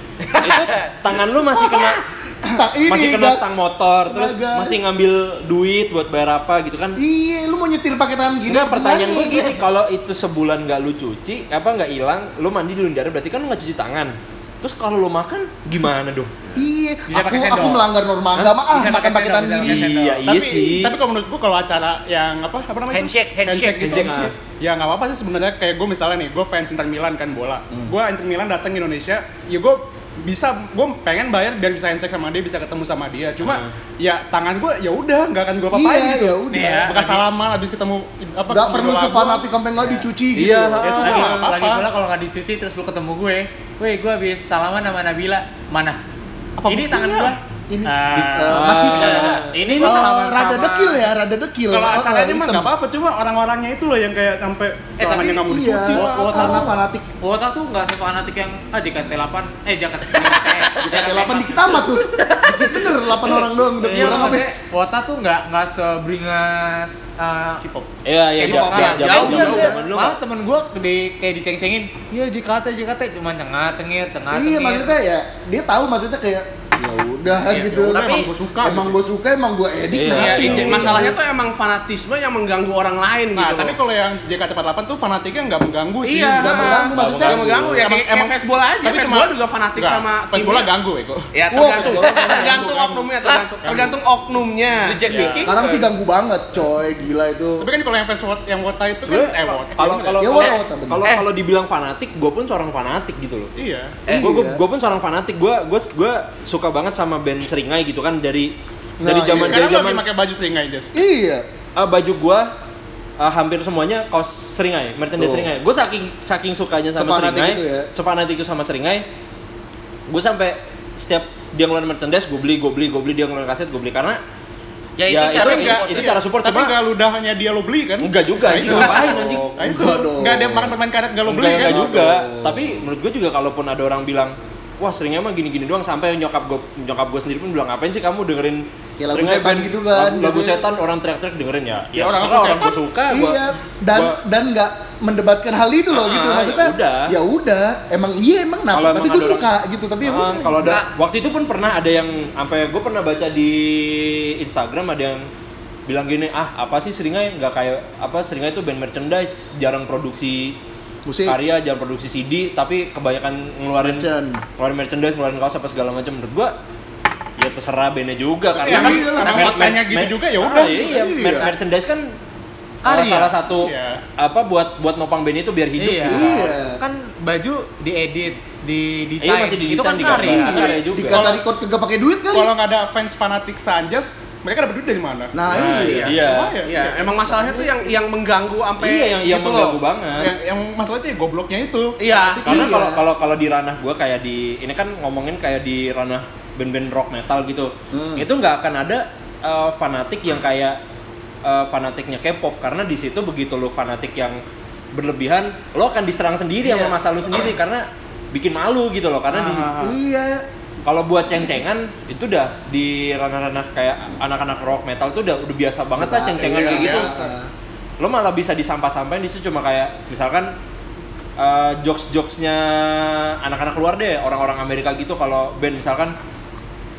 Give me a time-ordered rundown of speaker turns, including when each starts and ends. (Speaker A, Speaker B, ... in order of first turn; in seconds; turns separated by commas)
Speaker A: 0.3-0.8, Speaker B: 0.4-2.0, Speaker C: 1.3-4.8, Speaker B: 2.9-7.0, Speaker C: 7.0-9.6, Speaker B: 8.5-16.4, Speaker C: 16.6-19.9, Speaker D: 17.1-17.9, Speaker D: 18.5-20.3, Speaker B: 19.6-21.0, Speaker E: 20.2-40.0, Speaker A: 22.9-24.1, Speaker B: 23.8-24.3, Speaker B: 33.4-33.7, Speaker C: 35.7-36.9, Speaker D: 36.5-37.2, Speaker C: 38.5-41.1, Speaker B: 40.3-41.4, Speaker E: 40.9-41.9, Speaker D: 40.9-46.0, Speaker E: 46.6-47.4, Speaker D: 46.7-51.1, Speaker C: 47.7-52.7, Speaker B: 48.5-50.0, Speaker A: 48.9-49.4, Speaker E: 51.7-56.7, Speaker D: 55.0-61.9, Speaker C: 55.4-57.1, Speaker A: 60.2-60.7, Speaker C: 60.8-64.5, Speaker A: 62.1-62.9, Speaker D: 63.8-67.6, Speaker E: 67.6-67.9, Speaker B: 68.0-70.2, Speaker D: 68.4-75.0, Speaker A: 68.5-69.8, Speaker C: 69.3-69.8, Speaker C: 74.3-78.0, Speaker E: 77.5-79.0, Speaker A: 77.9-78.3, Speaker C: 78.6-81.2, Speaker B: 79.9-80.9, Speaker F: 80.1-83.8, Speaker D: 80.2-80.6, Speaker E: 80.7-81.0, Speaker E: 83.3-86.9, Speaker F: 86.1-90.7, Speaker C: 86.4-87.4, Speaker B: 86.8-87.8, Speaker E: 87.7-94.0, Speaker F: 91.3-95.3, Speaker C: 91.5-92.5, Speaker A: 93.2-93.9, Speaker A: 94.8-95.5, Speaker E: 95.1-95.9, Speaker C: 95.3-97.7, Speaker E: 97.6-100.4, Speaker B: 99.0-103.5, Speaker C: 100.2-101.0, Speaker A: 100.4-101.3, Speaker E: 103.6-104.0, Speaker A: 104.1-104.4, Speaker C: 104.1-104.6, Speaker B: 104.1-110.0, Speaker C: 109.0-109.7, Speaker E: 109.3-111.0, Speaker C: 110.9-111.5, Speaker B: 111.8-112.5, Speaker B: 113.2-119.0, Speaker C: 115.2-115.5, Speaker C: 117.0-117.9, Speaker B: 120.1-124.2, Speaker A: 125.0-126.2, Speaker B: 125.1-126.8, Speaker E: 125.3-131.9, Speaker B: 128.0-129.5, Speaker C: 128.6-130.8, Speaker B: 131.3-144.2, Speaker C: 131.4-132.8, Speaker C: 139.0-140.6, Speaker E: 142.0-142.8, Speaker C: 143.1-150.8, Speaker B: 145.9-147.1, Speaker B: 148.7-149.5, Speaker B: 150.0-155.3, Speaker B: 155.9-160.6, Speaker C: 161.1-161.4, Speaker B: 161.2-166.5, Speaker C: 163.8-164.4, Speaker B: 167.4-172.1, Speaker E: 168.5-170.9, Speaker C: 168.6-169.8, Speaker C: 170.6-171.5, Speaker D: 172.8-173.3, Speaker B: 172.8-176.5, Speaker E: 173.2-174.0, Speaker D: 175.8-180.8, Speaker C: 176.1-176.8, Speaker B: 179.2-181.4, Speaker C: 180.1-182.5, Speaker E: 182.3-186.9, Speaker C: 185.3-186.2, Speaker B: 185.5-186.6, Speaker F: 185.8-189.8, Speaker C: 187.2-187.7, Speaker B: 188.8-190.3, Speaker E: 190.2-192.8, Speaker D: 192.0-192.3, Speaker B: 192.4-200.8, Speaker C: 192.4-193.0, Speaker C: 197.9-198.3, Speaker B: 201.4-204.4, Speaker B: 204.9-209.7, Speaker D: 206.7-206.9, Speaker D: 209.3-210.0, Speaker C: 209.8-210.4, Speaker B: 210.8-217.1, Speaker C: 216.0-217.5, Speaker E: 216.5-217.1, Speaker B: 218.0-220.6, Speaker B: 221.4-226.2